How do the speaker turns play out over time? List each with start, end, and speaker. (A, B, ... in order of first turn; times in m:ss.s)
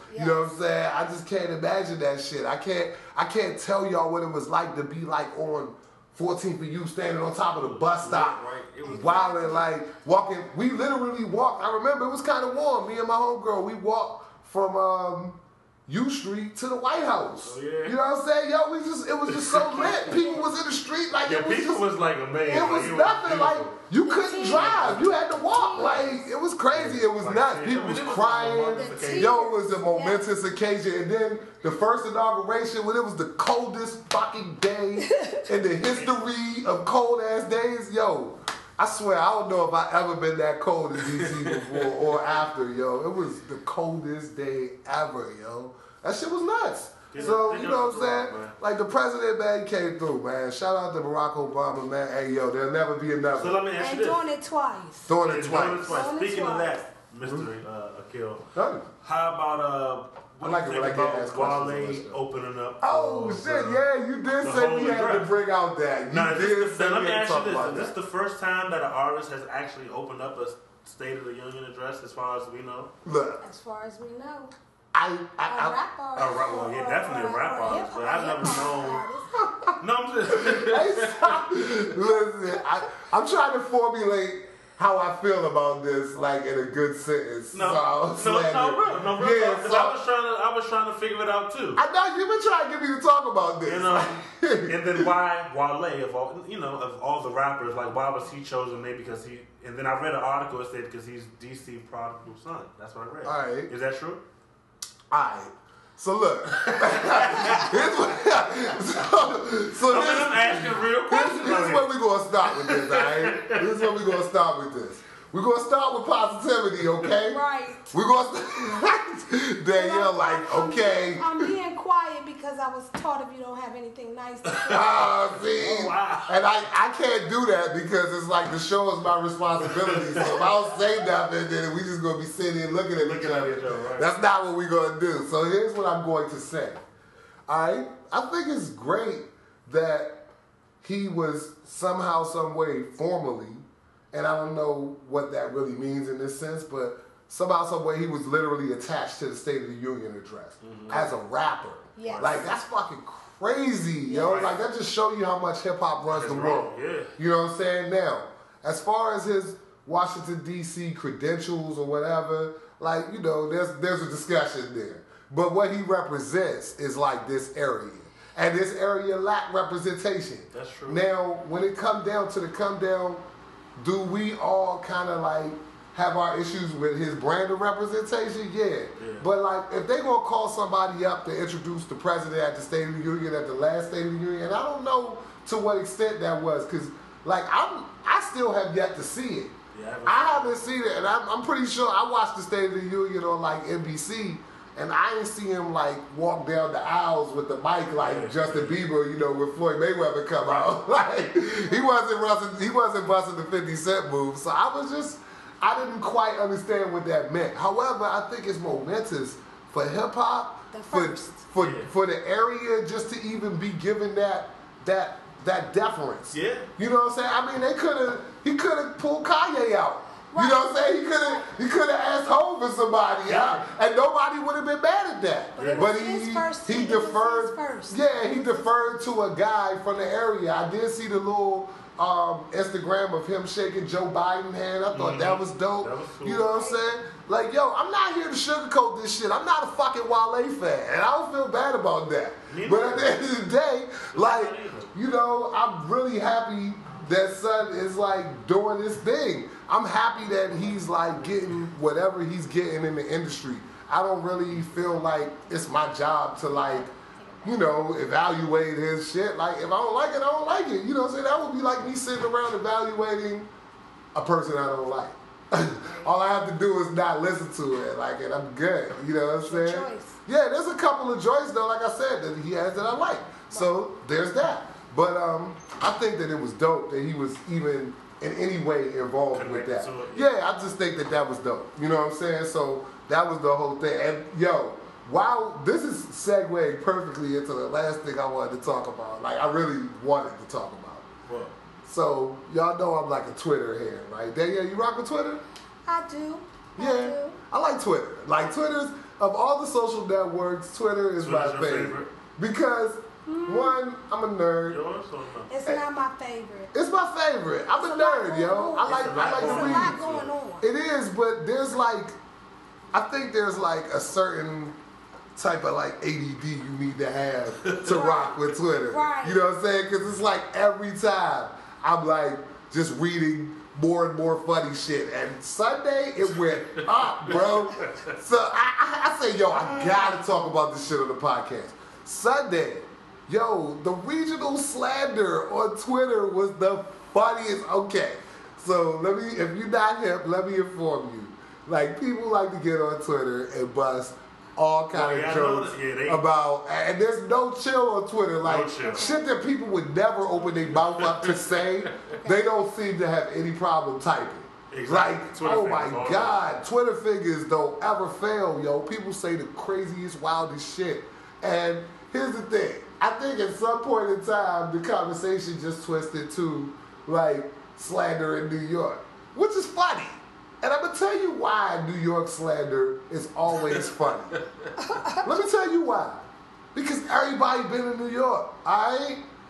0:00.1-0:00.5 A
0:00.1-0:21.9 B
0:07.5-0:09.3 C
0:08.8-0:09.7 A
0:17.4-0:18.0 C
0:19.3-0:20.2 C
0:19.7-0:20.5 A
0:21.2-0:23.7 C
0:22.4-0:53.6 B
0:22.5-0:22.9 A
0:24.0-0:26.2 A
0:24.4-0:25.1 C
0:26.7-0:29.4 C
0:28.8-0:30.2 A
0:35.1-0:35.4 A
0:41.1-0:41.9 C
0:47.1-0:48.5 C
0:53.3-0:54.2 C
0:53.8-0:55.1 A
0:55.1-0:56.0 B
0:55.2-0:58.5 C
0:55.9-0:56.8 A
0:57.2-0:57.5 B
0:58.5-0:58.9 B
0:59.0-1:03.8 C
1:00.4-1:02.2 B
1:02.8-1:07.9 B
1:04.4-1:05.3 C
1:06.1-1:12.9 C
1:13.0-1:13.4 B
1:13.4-1:14.5 A
1:14.9-1:15.8 B
1:15.5-1:19.3 A
1:16.2-1:19.0 C
1:19.3-1:19.8 B
1:19.8-1:21.8 C
1:20.3-1:30.0 B
1:27.5-1:31.8 C
1:31.8-1:35.1 B
1:33.6-1:44.2 C
1:43.2-1:43.7 B
1:45.1-2:01.5 B
1:46.6-1:48.0 C
1:49.8-1:51.9 C
1:52.4-1:54.0 C
1:57.3-1:57.9 A
1:59.7-2:05.1 A
2:04.6-2:06.3 C
2:04.7-2:16.8 B
2:09.7-2:10.5 C
2:13.0-2:14.2 C
2:17.5-2:20.3 B
2:20.8-4:16.9 B
2:30.6-2:31.1 C
2:32.0-2:32.4 A
2:32.0-2:32.4 C
2:34.1-2:34.6 C
2:36.1-2:37.1 C
2:50.5-2:51.0 C
2:59.0-2:59.2 C
3:09.7-3:10.7 C
3:18.0-3:18.8 C
3:30.7-3:31.4 A
3:31.6-3:31.9 C
3:36.3-3:36.7 C
3:40.3-3:41.5 A
3:43.2-3:43.6 C
3:45.6-3:49.0 A
3:45.6-3:45.9 C
3:54.9-3:56.4 C
3:56.5-3:56.8 A
4:02.5-4:03.2 C
4:04.1-4:04.9 C
4:11.1-4:11.6 C
4:16.5-4:17.6 A
4:17.4-4:23.5 B
4:24.1-4:51.1 B
4:25.8-4:26.1 A
4:29.4-4:30.2 A
4:33.5-4:33.8 A
4:39.3-4:40.3 C
4:51.3-4:51.5 C
4:51.8-4:55.4 B
4:55.8-4:57.4 A
4:56.8-5:04.8 B
5:01.2-5:02.1 C
5:03.2-5:03.8 A
5:04.7-5:05.5 C
5:05.5-5:06.7 A
5:06.7-5:10.0 B
5:07.8-5:10.6 A
5:08.8-5:10.3 C
5:10.6-5:12.1 B
5:12.9-5:14.8 B
5:15.3-6:14.4 B
5:17.6-5:17.9 C
5:17.8-5:19.4 A
5:26.4-5:28.1 C
5:44.9-5:46.2 C
5:48.4-5:49.1 C
5:48.8-5:49.2 A
5:50.3-5:52.1 C
5:54.7-5:56.5 C
6:14.8-6:15.2 A
6:15.1-6:19.2 B